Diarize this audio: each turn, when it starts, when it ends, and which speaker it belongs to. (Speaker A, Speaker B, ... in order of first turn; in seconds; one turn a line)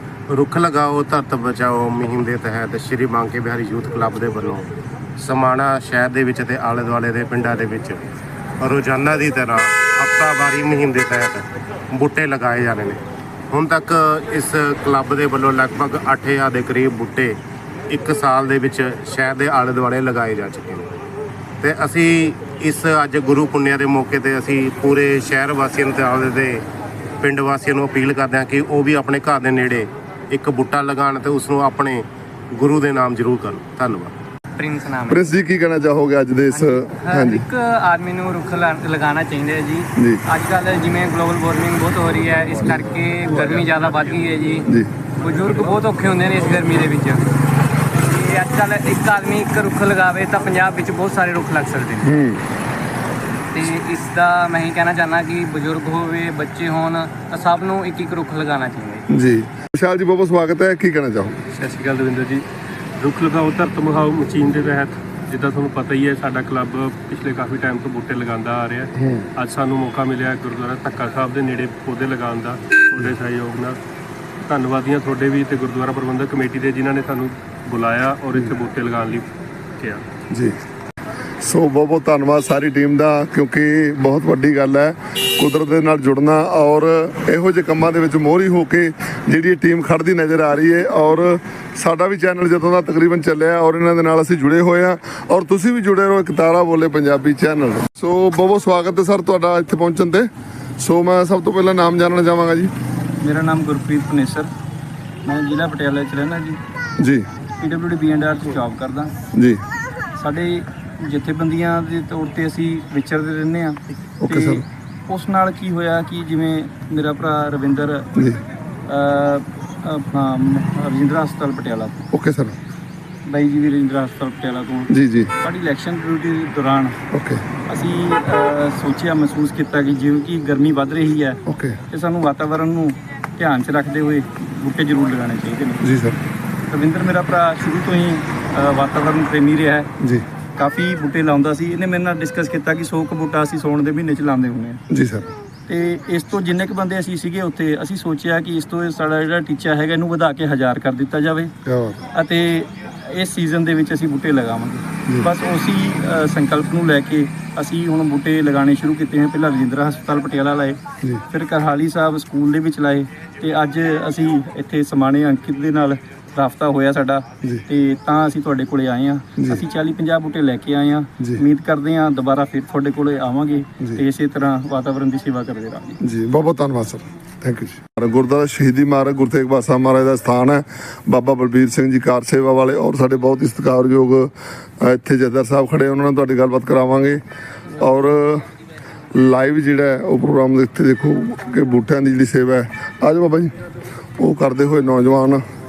Speaker A: 0.3-8.0
Speaker A: 8.6-13.0
Speaker A: 13.5-17.4
Speaker A: 17.9-20.9
Speaker A: 21.6-26.6
Speaker A: 27.2-34.1
Speaker B: 34.5-35.2
Speaker C: 35.1-37.5
Speaker B: 36.5-47.2
Speaker C: 40.0-40.2
Speaker C: 44.7-44.9
Speaker B: 48.0-52.1
Speaker C: 52.0-52.4
Speaker B: 53.5-59.0
Speaker C: 59.1-61.4
Speaker D: 61.6-62.5
Speaker D: 63.0-73.8
Speaker C: 69.0-69.3
Speaker D: 74.4-79.3
Speaker D: 79.8-80.0
Speaker C: 80.3-80.6
Speaker C: 81.4-102.7
Speaker E: 103.2-104.5
Speaker E: 105.2-106.6
Speaker C: 107.0-107.2
Speaker E: 107.6-109.1
Speaker C: 109.3-109.6
Speaker E: 110.2-118.1
Speaker C: 114.2-114.6
Speaker C: 118.2-118.4
Speaker E: 118.9-122.1
Speaker C: 122.1-122.6
Speaker E: 123.2-127.0
Speaker C: 124.9-125.3
Speaker C: 127.1-127.4
Speaker E: 127.7-135.8
Speaker C: 131.5-131.8
Speaker C: 135.8-136.2
Speaker E: 136.7-139.9
Speaker C: 140.0-140.2
Speaker E: 140.6-144.8
Speaker C: 144.9-145.3
Speaker E: 145.7-151.5
Speaker C: 151.7-152.1
Speaker E: 152.1-176.0
Speaker C: 176.0-187.2
Speaker C: 187.8-188.4
Speaker C: 189.2-193.5
Speaker C: 194.2-195.4